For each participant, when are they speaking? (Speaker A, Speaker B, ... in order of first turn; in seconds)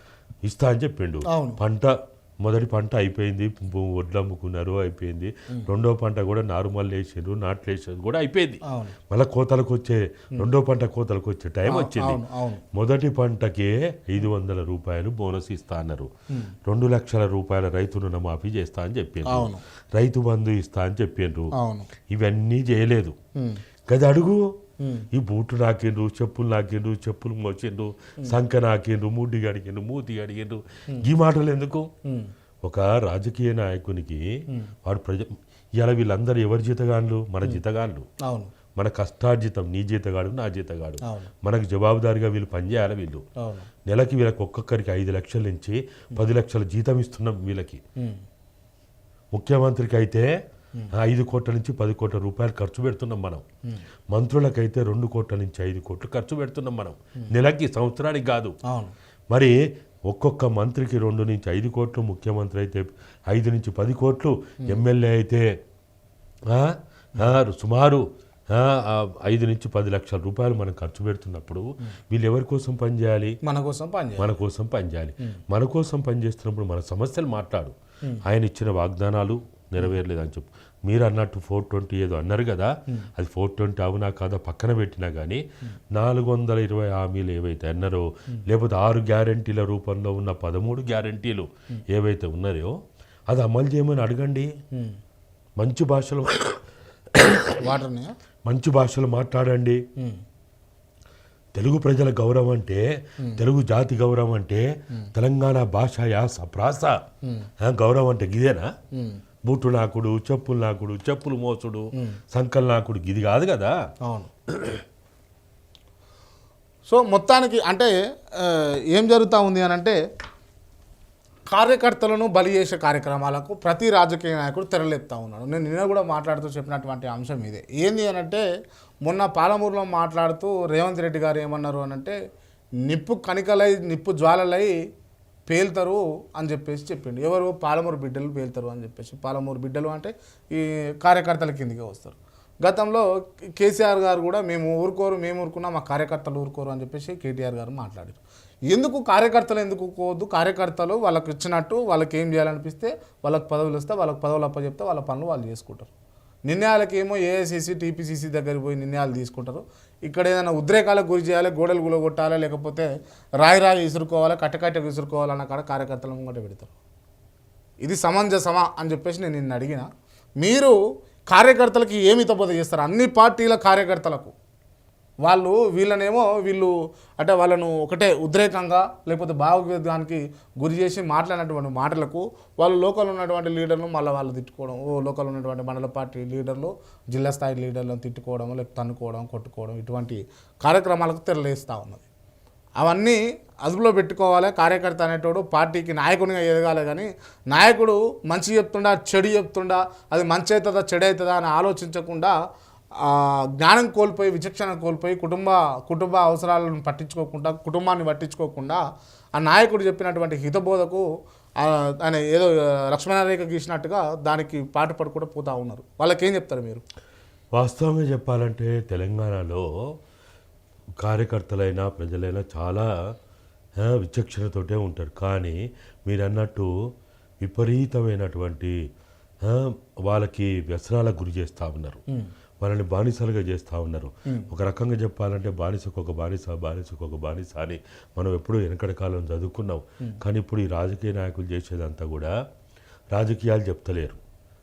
Speaker A: 0.4-12.2, 12.7-16.1, 16.6-21.5, 22.1-23.1, 23.9-24.5, 25.1-31.9, 32.6-34.2, 34.8-35.3, 35.8-38.0, 38.8-43.2, 43.9-47.8, 49.3-50.3, 51.0-53.4, 54.1-58.5, 60.1-65.4, 66.5-73.3, 74.2-77.7, 78.2-85.4, 85.9-92.7, 93.3-94.5, 95.6-96.6, 97.1-97.6, 98.5-99.8, 101.5-102.8, 103.3-104.6, 105.1-107.0, 107.6-108.7, 109.5-113.7, 114.5-114.8, 217.5-219.6, 221.0-222.9, 223.8-226.7, 227.4-228.7, 229.4-232.0, 232.6-242.3, 243.1-244.2
Speaker B: 1.3-1.6, 8.7-8.9, 11.7-12.6, 19.2-19.6, 21.6-21.9, 24.8-25.1, 38.2-38.5, 41.0-41.3, 43.4-43.7, 73.4-74.3, 94.7-95.0, 97.6-98.1, 116.9-120.0, 121.5-128.4, 129.0-132.2, 132.9-134.8, 135.5-143.1, 143.6-155.9, 156.5-162.9, 163.4-166.7, 167.8-169.9, 170.4-170.8, 171.3-174.3, 175.2-192.1, 192.8-202.3, 203.0-208.8, 209.3-211.1, 211.6-216.8